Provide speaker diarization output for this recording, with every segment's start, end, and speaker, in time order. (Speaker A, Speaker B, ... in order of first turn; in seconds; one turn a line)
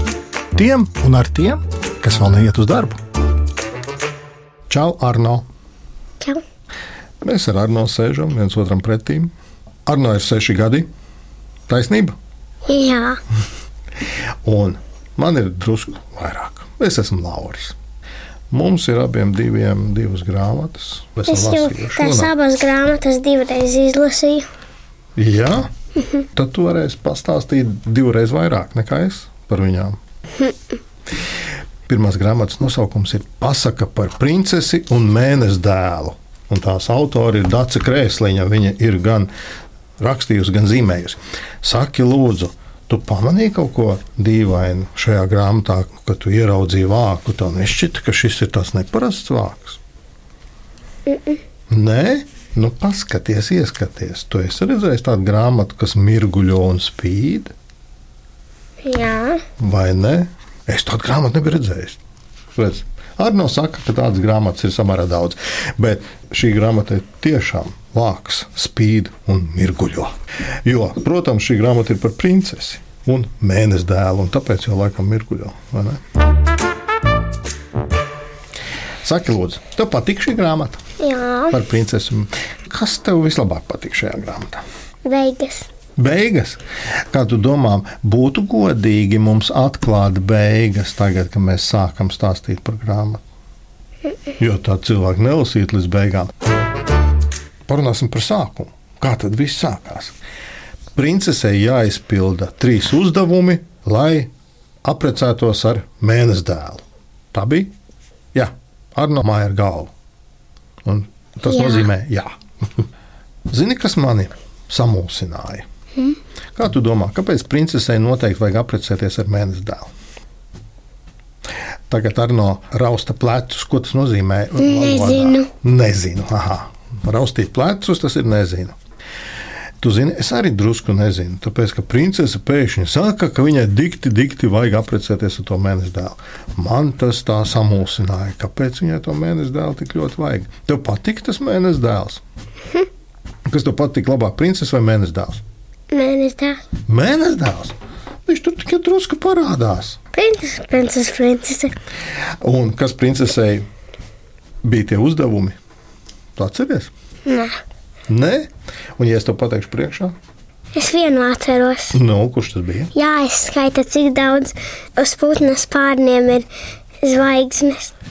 Speaker A: 0.6-3.0
Speaker A: 4.7-5.5
Speaker A: 7.2-9.3
Speaker A: 9.9-10.9
Speaker A: 11.7-12.2
Speaker B: 12.7-13.2
Speaker A: 14.4-17.8
Speaker A: 18.5-22.3
Speaker B: 21.3-24.5
Speaker A: 25.2-25.7
Speaker A: 26.3-30.0
Speaker A: 31.9-39.3
Speaker A: 40.0-49.8
Speaker B: 51.1-51.4
Speaker A: 51.7-57.5
Speaker B: 58.8-59.4
Speaker A: 59.6-62.0
Speaker A: 62.6-70.1
Speaker A: 70.7-76.0
Speaker A: 79.0-80.8
Speaker B: 81.0-81.6
Speaker A: 81.5-84.6
Speaker B: 85.0-85.7
Speaker A: 86.0-86.6
Speaker A: 87.1-93.2
Speaker A: 94.4-96.3
Speaker A: 97.7-100.2
Speaker A: 101.0-104.3
Speaker A: 104.8-107.7
Speaker A: 108.3-109.9
Speaker A: 110.8-112.8
Speaker B: 111.5-111.9
Speaker A: 113.5-115.7
Speaker A: 116.6-119.9
Speaker A: 121.9-128.8
Speaker B: 124.6-125.5
Speaker A: 129.8-142.2
Speaker A: 143.5-145.4
Speaker B: 145.9-146.6
Speaker A: 146.9-147.8
Speaker A: 148.3-150.0
Speaker B: 150.1-151.8
Speaker A: 152.4-153.7
Speaker A: 154.6-155.6
Speaker A: 156.4-156.9
Speaker B: 157.3-157.6
Speaker A: 158.1-160.2
Speaker B: 160.8-162.0
Speaker A: 161.9-162.9
Speaker B: 162.9-166.5
Speaker B: 167.0-167.9